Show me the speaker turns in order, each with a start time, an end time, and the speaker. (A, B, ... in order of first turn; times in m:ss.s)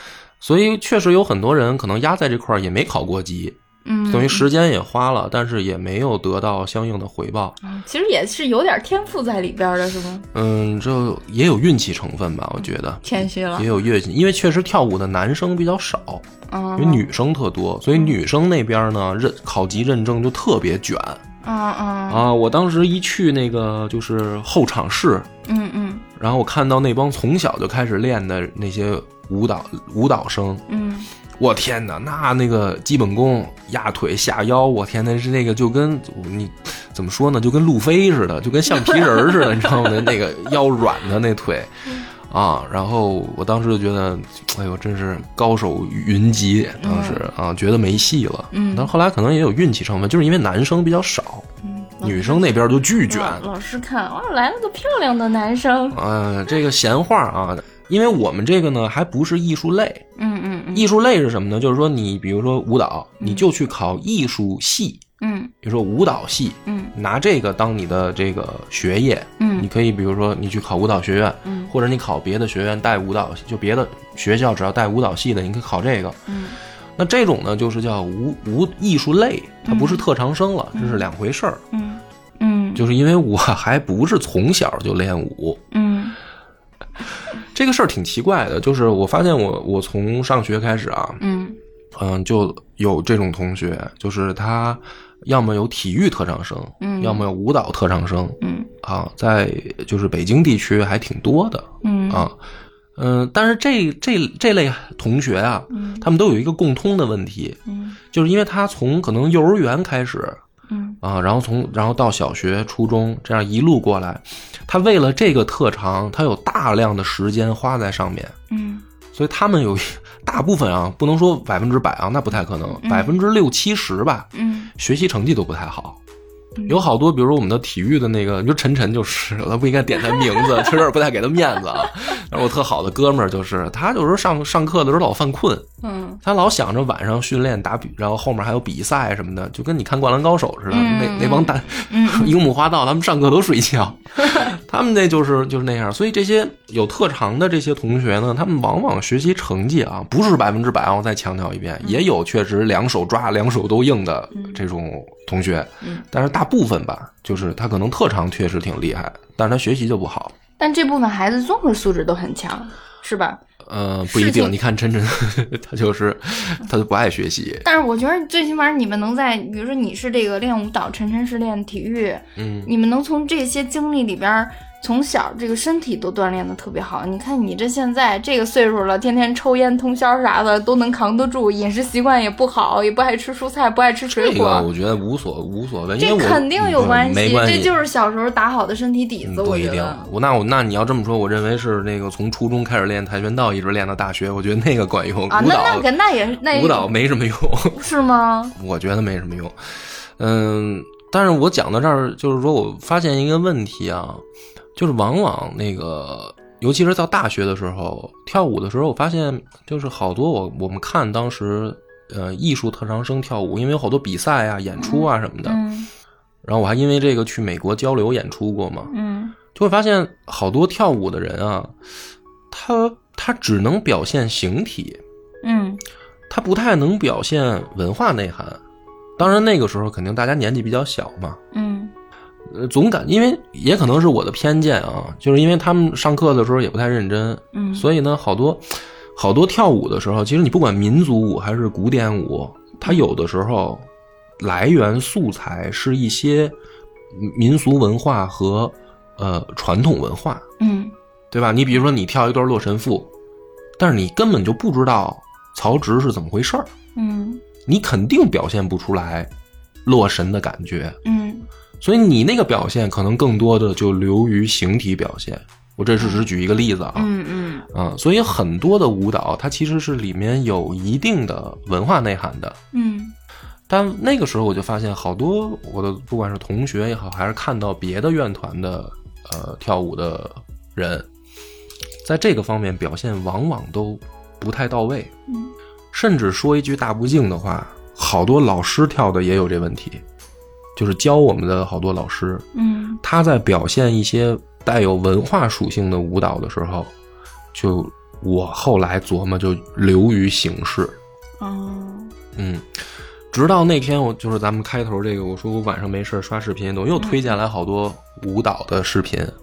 0:00.4-0:07.6 A
0:03.8-0:04.5 B
0:07.6-0:10.2 B
0:10.3-0:16.2 A
0:13.0-0:13.7 B
0:16.5-0:17.1 B
0:16.8-0:21.2 A
0:21.4-0:22.2 B
0:22.1-0:25.3 A
0:25.4-0:26.0 B
0:26.2-0:30.6 A
0:30.7-0:31.1 B
0:31.4-0:51.5 A
0:38.8-0:40.1 B
0:46.8-0:47.3 B
0:48.5-0:48.9 B
0:51.6-0:56.0 B
0:52.0-0:53.4 A
0:55.9-1:00.0 A
1:00.2-1:00.9 B
1:00.7-1:05.0 A
1:03.2-1:03.5 B
1:05.2-1:05.5 B
1:05.6-1:16.2 A
1:06.6-1:06.9 B
1:09.4-1:09.7 B
1:11.4-1:11.7 B
1:16.3-1:16.6 B
1:17.0-1:21.6 A
1:19.6-1:20.1 B
1:20.7-1:21.1 B
1:21.7-1:22.8 B
1:22.8-1:25.6 A
1:25.7-1:26.2 B
1:27.4-1:31.2 A
1:31.2-1:31.6 B
1:31.9-1:42.4 A
1:36.8-1:37.3 B
1:38.4-1:38.7 B
1:41.8-1:42.3 B
1:43.0-1:47.6 A
1:45.7-1:46.1 B
1:47.7-1:48.0 B
1:48.1-1:50.4 A
1:50.7-1:51.0 B
1:51.0-1:58.3 A
1:58.5-1:58.8 B
1:59.1-2:06.0 A
2:02.8-2:03.1 B
2:04.3-2:04.7 B
2:06.6-2:15.7 A
2:10.1-2:10.7 B
2:15.8-2:16.2 B
2:16.2-2:40.3 A
2:20.7-2:22.4 B
2:24.2-2:24.5 B
2:34.3-2:34.6 B
2:40.6-2:43.4 B
2:43.6-2:47.6 A
2:44.0-2:44.5 B
2:47.6-3:04.7 B
2:52.4-2:52.7 A
3:04.1-3:07.7 A
3:06.0-3:10.1 B
3:09.2-3:15.9 A
3:15.3-3:16.9 B
3:16.4-3:17.8 A
3:17.7-3:18.6 B
3:18.6-3:24.2 A
3:24.8-3:35.6 A
3:34.8-3:35.9 B
3:36.4-3:38.9 A
3:38.9-3:39.4 B
3:39.5-3:41.7 A
3:42.5-3:45.0 A
3:45.4-3:45.8 B
3:46.3-3:48.6 A
3:49.2-3:51.4 A
3:51.5-3:51.9 B
3:52.5-4:03.9 A
3:57.5-3:57.8 B
4:04.4-4:06.5 A
4:07.1-4:10.4 A
4:10.6-4:10.9 B
4:11.3-4:13.1 A
4:13.8-4:16.7 A
4:16.9-4:17.4 B
4:17.6-4:19.3 A
4:19.8-4:21.0 A
4:21.0-4:21.5 B
4:21.8-4:27.1 A
4:26.0-4:26.2 B
4:27.0-4:27.7 B
4:27.7-4:32.6 A
4:32.7-4:33.1 B
4:33.7-4:41.1 A
4:42.0-4:45.1 A
4:45.3-4:45.5 B
4:45.9-4:50.0 A
4:50.8-4:52.4 A
4:52.5-4:53.0 B
4:53.0-4:56.9 A
4:57.5-5:01.0 A
5:01.4-5:02.1 B
5:02.4-5:02.6 A
5:03.3-5:09.3 A
5:07.0-5:07.3 B